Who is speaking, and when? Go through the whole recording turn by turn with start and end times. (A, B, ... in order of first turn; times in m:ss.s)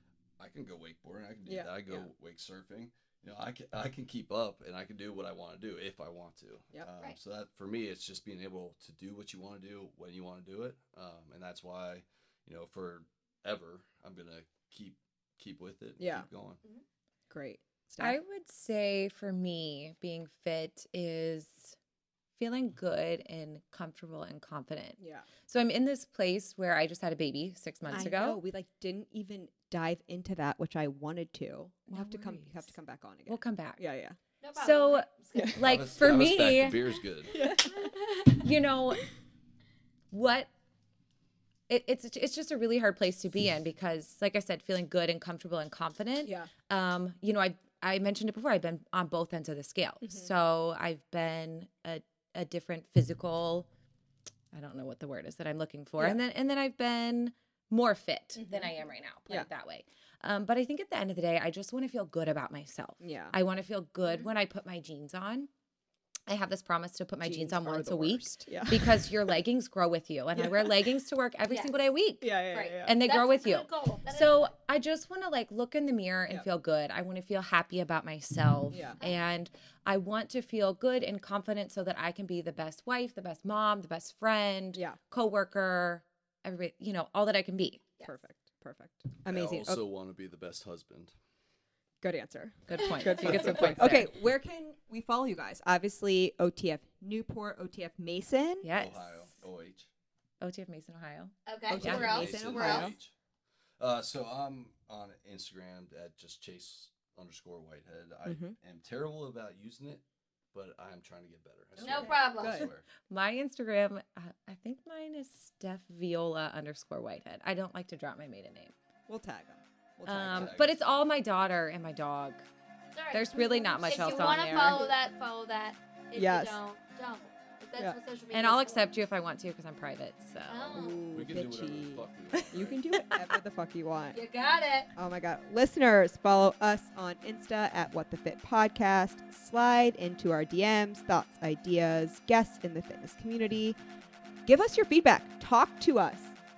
0:00.4-0:16.6 A
0:01.4-0:02.1 B
0:16.0-0:16.3 B
0:17.3-0:18.2 B
0:18.0-0:21.8 C
0:22.4-0:28.4 C
0:25.0-0:25.3 B
0:27.9-0:34.2 B
0:31.9-0:32.7 C
0:33.3-0:33.8 C
0:34.4-0:35.6 D
0:34.6-0:36.8 C
0:35.6-0:37.4 A
0:37.3-0:38.0 B
0:38.4-0:39.0 C
0:40.1-0:40.5 C
0:41.7-0:53.7 C
0:46.2-0:46.5 B
0:50.0-0:50.3 B
0:54.5-1:05.5 C
0:56.0-0:56.2 B
0:58.4-0:58.7 B
1:03.0-1:03.4 B
1:06.3-1:27.8 C
1:07.2-1:09.4 B
1:10.3-1:11.0 B
1:11.5-1:11.7 D
1:12.2-1:13.0 B
1:12.5-1:14.5 D
1:18.7-1:19.0 B
1:28.0-1:29.8 B
1:29.3-1:31.1 A
1:32.0-1:38.6 B
1:32.7-1:34.2 C
1:32.8-1:33.3 D
1:33.5-1:33.9 A
1:38.6-1:39.3 C
1:38.7-1:39.9 A
1:40.4-1:42.0 C
1:41.4-1:42.9 D
1:41.7-1:43.0 B
1:41.7-1:43.1 A
1:43.8-1:50.0 A
1:48.2-1:48.6 B
1:50.5-1:52.8 A
1:51.8-1:52.7 B
1:51.8-1:52.7 D
1:53.1-1:58.7 C
1:59.1-2:00.6 B
2:00.1-2:02.4 C
2:00.1-2:00.7 A
2:02.9-2:08.9 D
2:03.1-2:04.8 C
2:03.3-2:04.9 B
2:06.1-2:06.6 B
2:08.3-2:10.8 C
2:10.5-2:11.1 D
2:10.7-2:14.2 B
2:11.1-2:12.8 A
2:12.9-2:13.3 C
2:14.1-2:14.9 D
2:14.9-2:23.8 B
2:24.4-2:26.3 B